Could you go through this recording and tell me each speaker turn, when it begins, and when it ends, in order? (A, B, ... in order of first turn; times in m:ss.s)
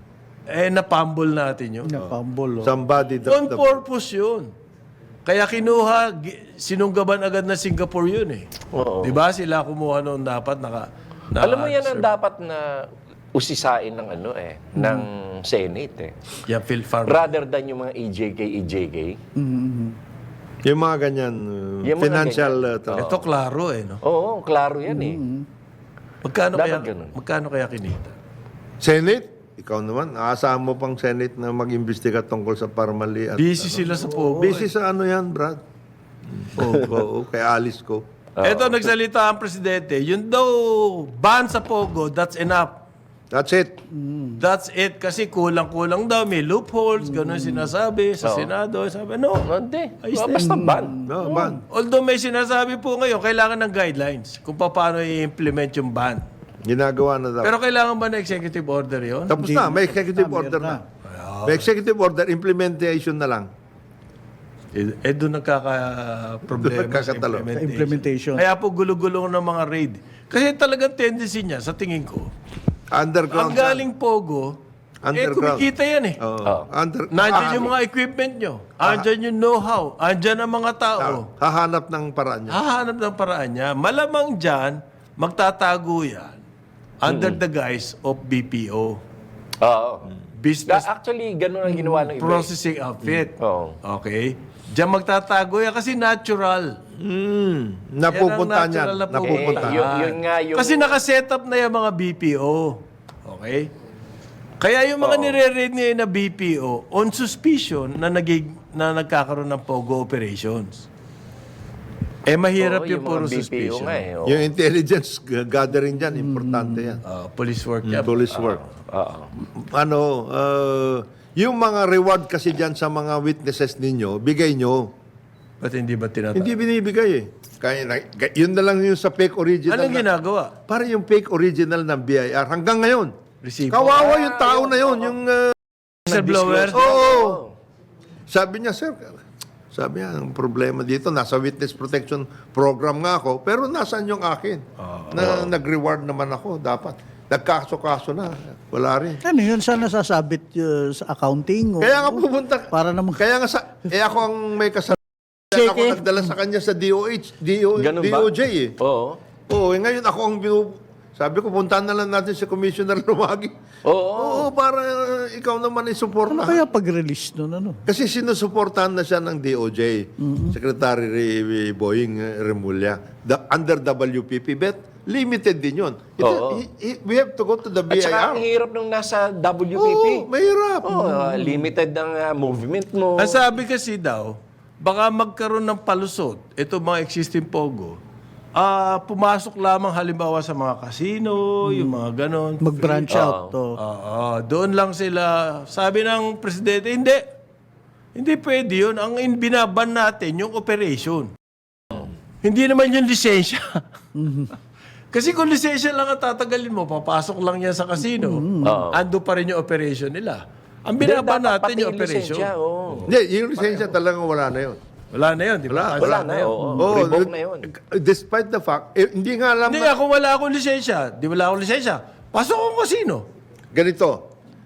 0:00.5-0:01.9 A
0:01.8-0:02.7 B
0:02.0-0:03.8 C
0:03.2-0:04.5 A
0:05.2-0:08.5 A
0:08.7-0:09.2 D
0:09.0-0:12.1 A
0:11.4-0:16.1 D
0:14.7-0:15.1 B
0:16.5-0:17.3 A
0:17.0-0:19.2 D
0:19.4-0:20.0 B
0:20.6-0:23.0 C
0:21.8-0:23.2 D
0:22.9-0:24.0 A
0:24.0-0:25.2 D
0:24.9-0:25.4 B
0:26.2-0:28.1 A
0:26.5-0:27.1 D
0:28.8-0:35.6 C
0:33.4-0:34.7 A
0:33.8-0:34.5 B
0:36.3-0:38.0 C
0:36.6-0:37.0 A
0:38.4-0:38.8 D
0:38.4-0:42.8 A
0:43.3-0:43.8 C
0:43.9-0:44.4 B
0:44.4-0:49.5 A
0:47.0-0:47.7 B
0:48.2-0:48.5 D
0:49.4-0:51.0 D
0:50.0-0:50.6 A
0:50.4-0:51.6 B
0:51.0-0:51.6 C
0:51.7-0:56.2 A
0:56.6-0:57.5 C
0:57.4-0:59.4 A
0:59.3-1:00.8 C
0:59.3-1:00.8 B
1:01.0-1:01.7 A
1:01.4-1:03.5 C
1:04.7-1:12.3 A
1:06.5-1:07.5 C
1:07.5-1:08.4 B
1:12.9-1:13.8 C
1:13.3-1:14.6 A
1:15.0-1:15.7 C
1:15.1-1:16.2 A
1:16.2-1:17.7 C
1:17.1-1:21.3 A
1:18.8-1:19.1 C
1:21.0-1:22.6 C
1:22.5-1:26.4 A
1:27.0-1:29.0 A
1:27.1-1:27.4 D
1:29.6-1:30.1 D
1:30.3-1:30.8 A
1:30.7-1:32.5 D
1:31.7-1:32.0 B
1:32.2-1:36.8 A
1:33.4-1:33.8 D
1:37.0-1:39.8 C
1:38.1-1:43.7 A
1:39.2-1:41.0 D
1:44.6-1:50.9 A
1:45.0-1:45.4 D
1:52.3-1:54.0 A
1:52.6-1:54.4 D
1:54.2-1:57.0 C
1:56.2-1:56.9 B
1:57.0-1:58.2 A
1:57.8-1:58.6 C
1:58.3-1:59.3 D
1:59.5-2:04.9 C
2:05.6-2:06.5 A
2:06.3-2:10.1 C
2:09.7-2:10.5 A
2:10.7-2:13.1 C
2:13.4-2:14.1 A
2:13.6-2:15.8 C
2:13.8-2:15.1 D
2:16.0-2:16.8 A
2:16.1-2:17.5 D
2:16.7-2:17.4 C
2:18.3-2:19.2 C
2:19.7-2:29.2 C
2:24.8-2:25.3 A
2:29.2-2:33.2 B
2:31.8-2:38.7 C
2:35.5-2:36.3 B
2:37.8-2:39.2 D
2:39.5-2:43.5 C
2:43.8-2:44.5 D
2:44.1-2:46.6 C
2:46.3-2:47.8 B
2:47.8-2:58.4 C
2:50.2-2:50.6 B
2:56.2-2:56.6 D
2:57.9-3:00.3 D
2:59.7-3:00.9 C
3:00.8-3:03.4 D
3:00.9-3:01.7 B
3:03.2-3:08.0 A
3:08.5-3:13.2 A
3:11.6-3:12.0 B
3:12.6-3:13.8 B
3:13.1-3:13.5 D
3:13.8-3:17.2 A
3:18.1-3:21.3 A
3:22.4-3:23.8 A
3:24.2-3:24.5 B
3:25.1-3:32.5 A
3:28.0-3:28.8 B
3:28.6-3:29.0 D
3:31.0-3:33.8 D
3:33.0-3:34.8 C
3:35.1-3:36.5 A
3:35.7-3:36.2 C
3:36.0-3:37.6 D
3:36.6-3:36.9 B
3:36.8-3:39.9 C
3:39.7-3:43.3 A
3:43.7-3:44.3 C